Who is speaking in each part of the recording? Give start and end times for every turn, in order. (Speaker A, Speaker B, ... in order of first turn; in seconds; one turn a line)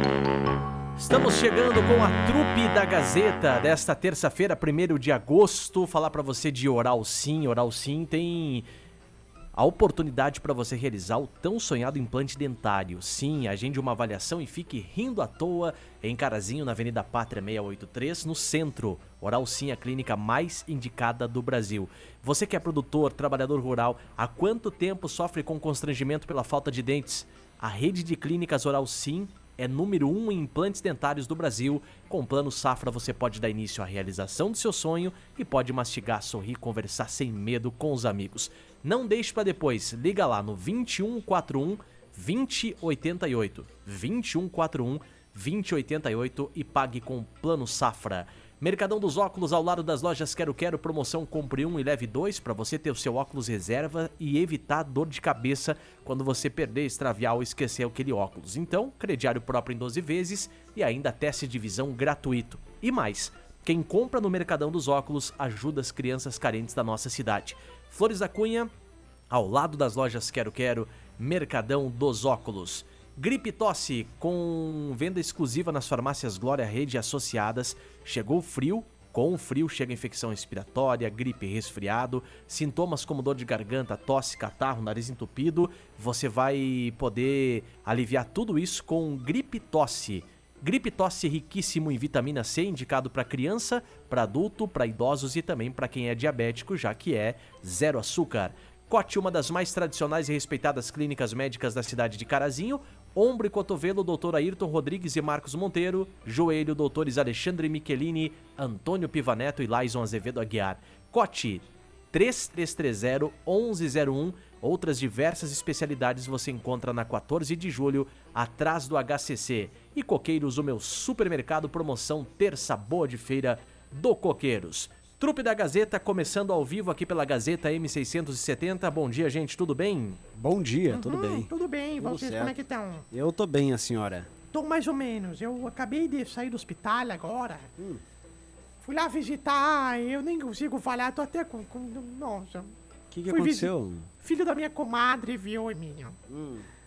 Speaker A: 0.9-8.7
Speaker A: 9.5-68.7
Speaker A: 69.3-130.2
Speaker B: 130.3-132.6
Speaker C: 130.9-133.1
Speaker B: 133.1-134.3
Speaker C: 134.5-137.7
Speaker C: 138.8-142.7
Speaker B: 143.1-144.1
Speaker C: 143.3-146.2
Speaker B: 146.3-146.7